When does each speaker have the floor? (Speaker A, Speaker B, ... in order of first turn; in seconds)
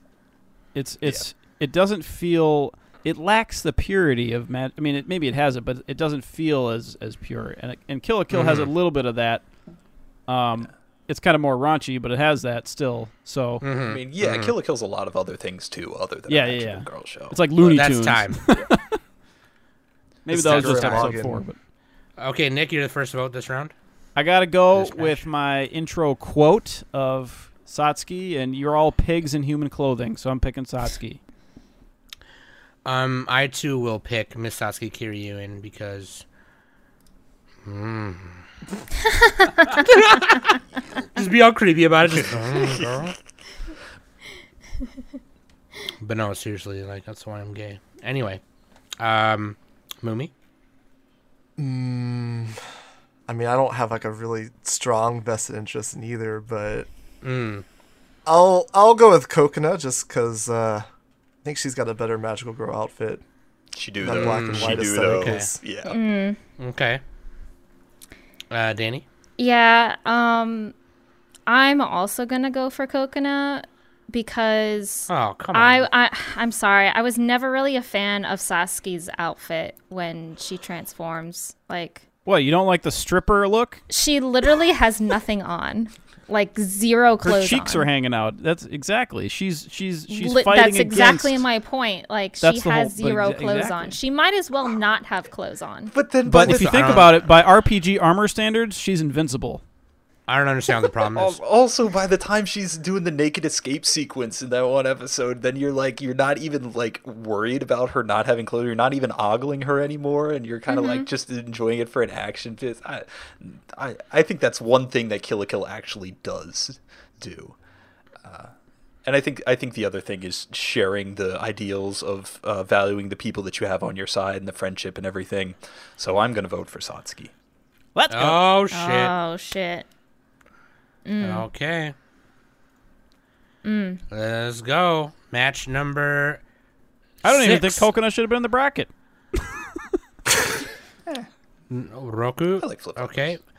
Speaker A: 0.7-9.4, 10.3-13.6, 16.3-19.0, 20.2-21.6, 24.1-31.2, 82.2-83.8, 87.2-91.4, 92.4-94.0, 96.2-99.6, 127.9-128.4, 137.2-139.6
Speaker B: 8.3-8.7, 13.8-17.9, 20.4-21.0, 24.7-25.1, 63.7-66.0, 95.9-97.2, 101.1-117.5, 118.2-118.5, 119.0-127.3, 142.6-143.3
Speaker C: 13.6-14.5, 17.6-18.4, 22.2-23.7, 32.8-36.2, 37.6-38.4, 39.7-40.6, 41.1-43.1, 46.0-48.4, 49.0-50.3, 57.2-57.6, 64.0-65.5, 66.6-67.0, 68.5-69.0, 75.1-75.9, 96.4-97.2, 100.3-101.4, 128.1-129.1, 131.2-131.9, 134.1-136.4, 137.2-137.9, 141.7-143.4
Speaker D: 20.3-21.4, 51.6-52.6, 53.3-56.9, 58.2-60.9, 61.4-63.2, 64.0-65.6
Speaker E: 65.8-66.4, 69.4-70.7, 71.5-82.0, 83.9-87.9, 90.1-95.9, 110.7-111.0, 128.7-129.8, 131.0-131.5, 133.6-134.0